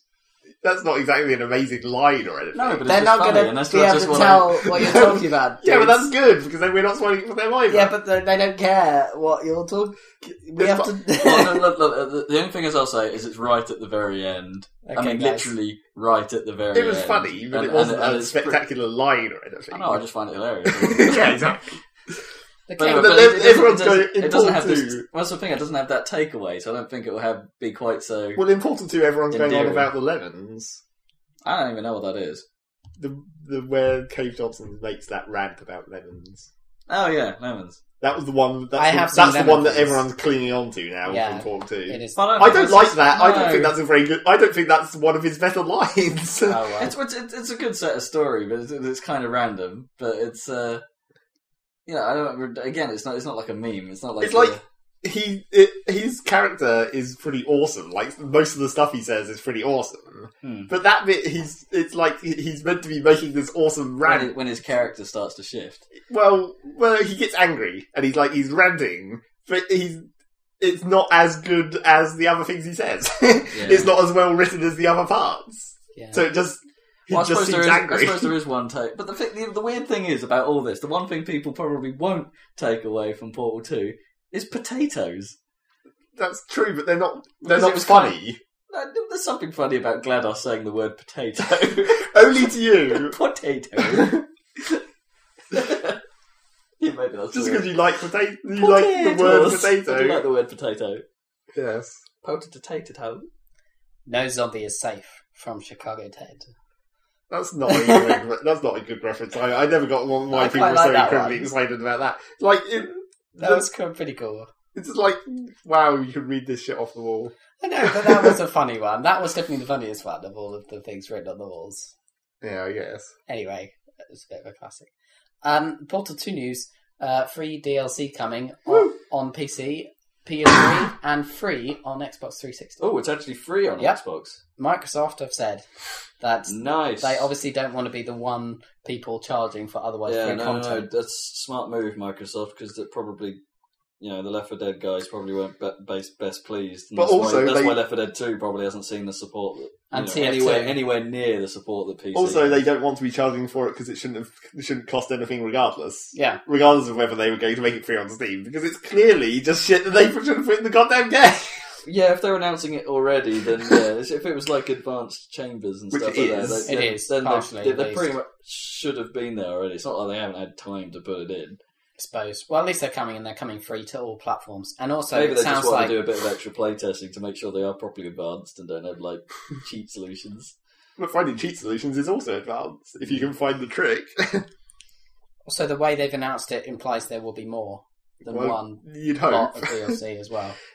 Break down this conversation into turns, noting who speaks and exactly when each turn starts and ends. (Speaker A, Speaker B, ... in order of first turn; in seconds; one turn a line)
Speaker A: 0.6-2.8
Speaker B: 2.5-5.0
Speaker C: 2.8-6.1
Speaker A: 4.7-7.9
Speaker C: 7.7-11.7
Speaker A: 10.6-10.9
Speaker B: 11.1-18.6
Speaker C: 14.8-15.5
Speaker A: 16.7-20.0
Speaker B: 19.7-21.6
Speaker A: 20.6-21.8
Speaker C: 22.7-23.3
Speaker B: 22.8-28.4
Speaker A: 22.9-25.1
Speaker A: 28.4-30.8
Speaker B: 29.3-29.9
Speaker B: 31.4-32.4
Speaker A: 33.0-36.5
Speaker B: 36.9-37.8
Speaker A: 38.0-46.8
Speaker C: 38.8-40.0
Speaker C: 41.1-42.5
Speaker B: 42.1-43.8
Speaker C: 46.5-46.9
Speaker B: 46.8-50.8
Speaker B: 51.9-54.6
Speaker A: 54.2-64.3
Speaker B: 60.4-60.7
Speaker B: 64.0-65.8
Speaker A: 66.1-70.1
Speaker A: 70.6-78.3
Speaker B: 73.5-73.9
Speaker C: 76.0-76.2
Speaker B: 77.1-85.4
Speaker A: 86.2-88.4
Speaker B: 87.4-88.2
Speaker B: 88.7-92.2
Speaker A: 91.8-93.2
Speaker B: 92.9-94.8
Speaker A: 93.8-94.2
Speaker B: 95.5-96.0
Speaker B: 96.8-97.8
Speaker A: 97.3-100.2
Speaker B: 98.6-101.0
Speaker A: 101.5-102.0
Speaker B: 102.2-103.3
Speaker C: 104.1-106.5
Speaker A: 107.3-113.7
Speaker C: 107.7-108.2
Speaker C: 110.3-111.5
Speaker C: 113.4-114.5
Speaker A: 114.7-118.3
Speaker C: 117.6-121.9
Speaker A: 122.4-123.1
Speaker C: 123.3-124.9
Speaker C: 125.4-132.8
Speaker B: 132.8-134.4
Speaker C: 134.6-135.7
Speaker C: 136.2-140.9
Speaker B: 136.5-137.3
Speaker B: 140.1-143.4
Speaker B: 144.0-152.6
Speaker A: 147.0-147.8
Speaker C: 149.9-150.8
Speaker A: 152.1-161.8
Speaker C: 156.1-156.4
Speaker B: 161.8-171.6
Speaker A: 165.9-166.7
Speaker C: 166.7-168.1
Speaker C: 172.0-176.0
Speaker B: 175.1-180.6
Speaker A: 181.0-184.5
Speaker C: 185.5-190.6
Speaker A: 188.3-190.0